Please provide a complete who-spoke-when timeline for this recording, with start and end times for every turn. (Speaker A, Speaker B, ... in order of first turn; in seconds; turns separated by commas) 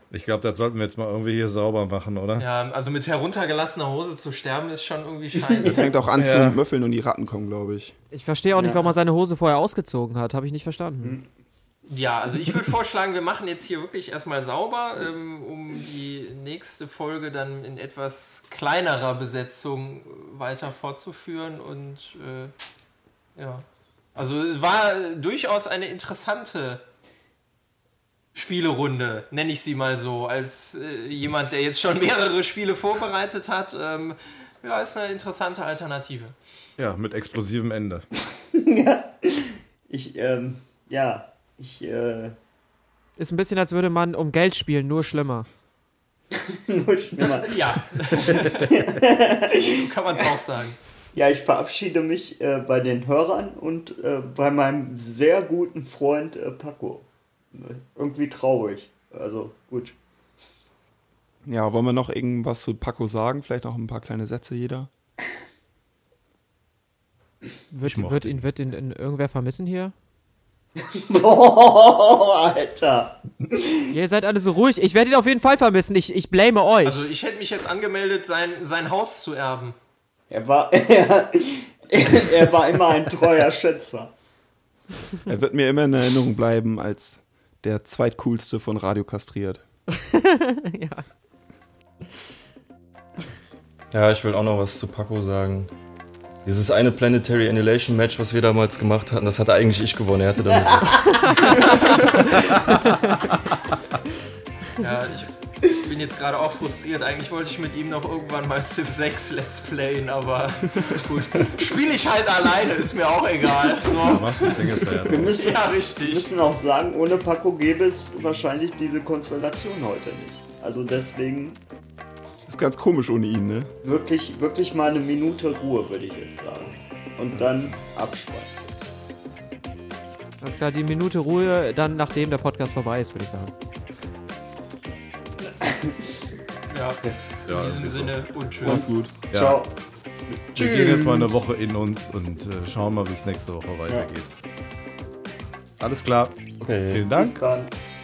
Speaker A: 0.1-2.5, Speaker B: 2.4-6.1, Speaker C: 5.3-5.9, Speaker D: 5.6-7.9, Speaker A: 6.2-6.6, Speaker E: 8.1-11.2, Speaker C: 8.5-8.9, Speaker B: 11.9-22.5, Speaker B: 23.4-23.6, Speaker B: 24.1-26.8, Speaker B: 28.3-36.3, Speaker A: 36.8-38.0, Speaker C: 38.5-42.3, Speaker E: 43.2-45.5, Speaker C: 46.3-50.2, Speaker B: 47.2-48.8, Speaker B: 49.5-50.8, Speaker C: 51.1-60.0, Speaker D: 61.5-64.9, Speaker E: 67.7-69.9, Speaker A: 67.8-68.5, Speaker C: 70.8-73.8, Speaker E: 73.9-77.1, Speaker B: 76.8-79.8, Speaker C: 80.3-84.1, Speaker D: 85.2-89.6, Speaker E: 89.9-91.0, Speaker F: 93.9-95.7, Speaker F: 96.4-102.1, Speaker C: 100.5-101.5, Speaker B: 104.8-116.3, Speaker A: 114.0-115.4, Speaker C: 115.0-121.6, Speaker D: 122.5-123.7, Speaker C: 123.8-128.5, Speaker E: 130.4-133.5, Speaker C: 135.4-136.2, Speaker B: 136.7-138.9, Speaker A: 137.5-138.2, Speaker D: 138.6-139.2, Speaker C: 138.6-139.7, Speaker A: 139.3-139.6, Speaker C: 140.3-141.4, Speaker A: 140.5-144.3, Speaker A: 145.8-147.4, Speaker F: 146.6-147.1, Speaker C: 147.1-147.7